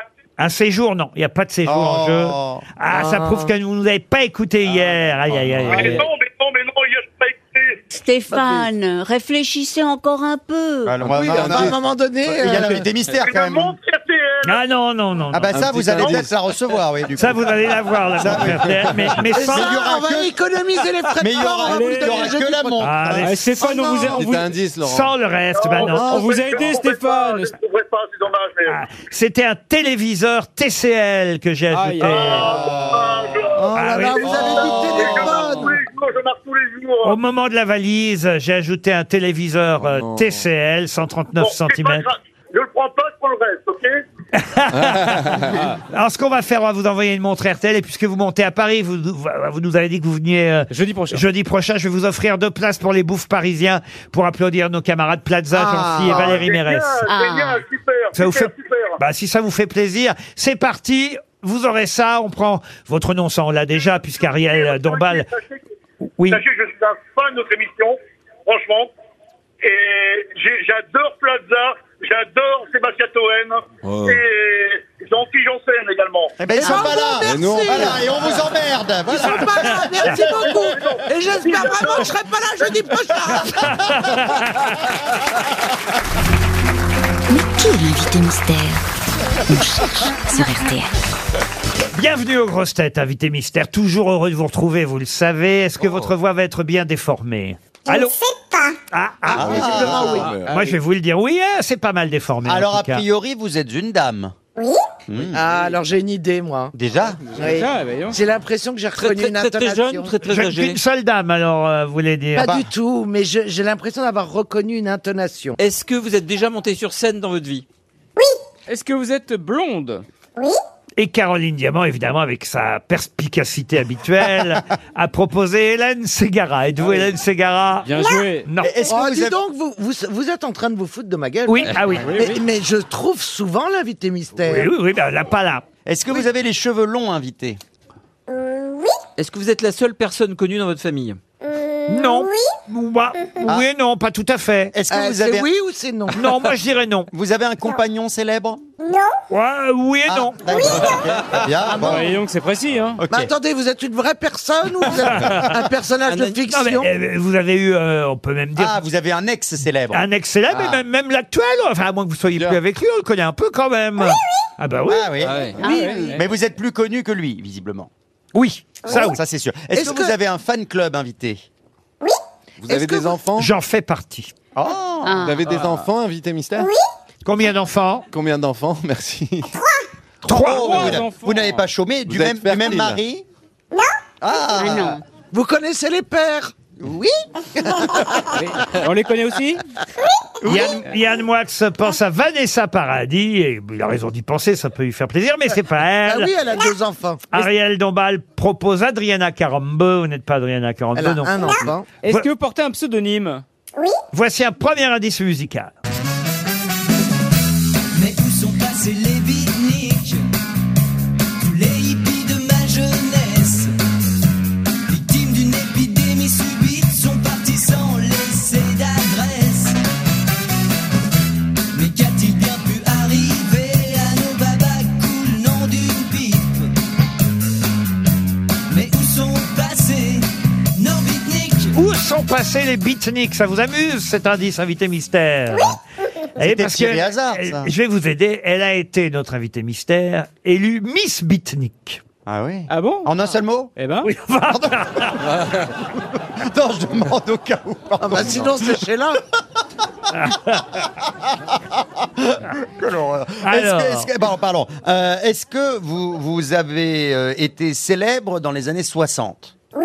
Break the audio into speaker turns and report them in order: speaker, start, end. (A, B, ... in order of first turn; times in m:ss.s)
0:00.4-0:06.0 A
0:01.7-0:02.6 B
0:02.9-0:03.5 C
0:05.3-0:05.8 D
0:05.7-0:07.8 E
0:07.9-0:11.0 F
0:10.8-0:13.8 B
0:11.0-0:11.8 D
0:11.0-0:12.8 C
0:13.2-0:14.6 E
0:14.4-0:15.5 A
0:15.3-0:17.6 B
0:15.5-0:16.3 D
0:16.0-0:16.2 E
0:17.2-0:19.8 A
0:18.2-0:20.4 B
0:18.3-0:19.2 D
0:19.3-0:23.1 C
0:21.2-0:23.4 B
0:21.5-0:22.4 G
0:22.8-0:23.7 A
0:23.2-0:24.5 G
0:23.6-0:24.2 C
0:24.1-0:25.1 D
0:24.8-0:26.1 A
0:25.6-0:28.8 E
0:25.8-0:27.5 G
0:28.7-0:32.6 A
0:31.7-0:32.5 G
0:32.0-0:33.7 E
0:32.6-0:35.7 B
0:33.6-0:35.7 C
0:33.7-0:34.3 A
0:34.4-0:37.2 E
0:37.0-0:42.0 A
0:39.8-0:40.4 D
0:41.4-0:44.0 E
0:44.4-0:57.0 A
0:44.7-0:45.6 D
0:50.7-0:51.2 G
0:55.6-0:56.3 C
0:56.2-0:59.0 E
0:57.0-0:57.6 F
0:58.1-1:05.3 A
1:04.5-1:05.6 E
1:06.3-1:08.9 E
1:09.6-1:16.4 E
1:13.8-1:14.2 D
1:16.4-1:20.5 B
1:16.6-1:18.2 C
1:16.6-1:16.9 F
1:17.2-1:18.0 D
1:19.0-1:23.7 C
1:20.2-1:22.2 E
1:23.3-1:24.8 A
1:27.3-1:28.9 H
1:29.5-1:30.9 H
1:30.2-1:30.5 F
1:31.9-1:38.2 A
1:38.9-1:43.0 A
1:39.3-1:40.3 B
1:39.4-1:40.6 D
1:40.0-1:40.7 G
1:42.4-1:44.3 B
1:45.1-1:45.4 B
1:45.3-1:46.7 C
1:46.7-1:47.4 B
1:47.4-1:50.1 C
1:47.4-1:48.2 G
1:49.0-1:50.8 I
1:50.3-1:52.5 A
1:52.4-1:55.6 C
1:52.4-1:52.7 B
1:55.6-1:57.6 I
1:58.7-2:00.0 G
2:01.0-2:08.7 A
2:07.8-2:08.5 G
2:08.6-2:09.4 B
2:08.8-2:14.7 C
2:11.5-2:12.2 A
2:11.7-2:12.4 G
2:14.4-2:15.6 A
2:15.8-2:17.6 B
2:19.2-2:21.2 I
2:21.9-2:24.7 A
2:24.7-2:25.5 B
2:24.9-2:26.3 C
2:26.1-2:27.1 A
2:27.1-2:28.6 B
2:29.3-2:30.4 A
2:30.1-2:32.1 B
2:31.7-2:33.0 G
2:33.0-2:33.3 B
2:33.1-2:36.9 C
2:35.1-2:35.5 A
2:36.1-2:36.4 I
2:36.5-2:38.8 A
2:38.6-2:40.0 B
2:39.9-2:45.1 A
2:44.9-2:47.9 B
2:45.2-2:45.6 I
2:45.6-2:46.3 G
2:45.6-2:46.2 F
2:48.3-2:49.2 A
2:48.9-2:51.4 B
2:49.7-2:50.2 C
2:52.6-2:53.5 D
2:53.4-2:54.3 A
2:54.6-2:55.3 B
2:55.0-2:55.5 F
2:55.2-2:56.7 D
2:57.2-2:58.0 A
2:58.1-2:59.5 D
3:00.2-3:01.0 A
3:00.2-3:03.2 B
3:00.3-3:01.6 G
3:02.1-3:03.0 D
3:04.2-3:05.0 B
3:04.5-3:05.0 F
3:05.3-3:06.5 C
3:06.8-3:07.1 B
3:07.7-3:08.2 C
3:08.3-3:09.6 G
3:10.4-3:16.3 A
3:16.0-3:17.4 C
3:17.3-3:22.3 A
3:21.0-3:21.9 C
3:22.0-3:23.4 G
3:24.1-3:25.7 A
3:27.9-3:30.3 J
3:31.4-3:33.7 J
3:34.9-3:39.8 J
3:41.7-3:46.7 J
3:48.7-3:51.8 J
3:51.7-3:55.8 A
3:56.4-3:57.7 B
3:56.4-4:02.0 A
4:02.3-4:03.7 B
4:02.7-4:03.1 G
4:03.8-4:04.1 G
4:04.0-4:05.3 A
4:06.4-4:08.8 B
4:08.0-4:09.2 C
4:10.1-4:10.6 A
4:12.2-4:19.5 B
4:13.4-4:14.1 A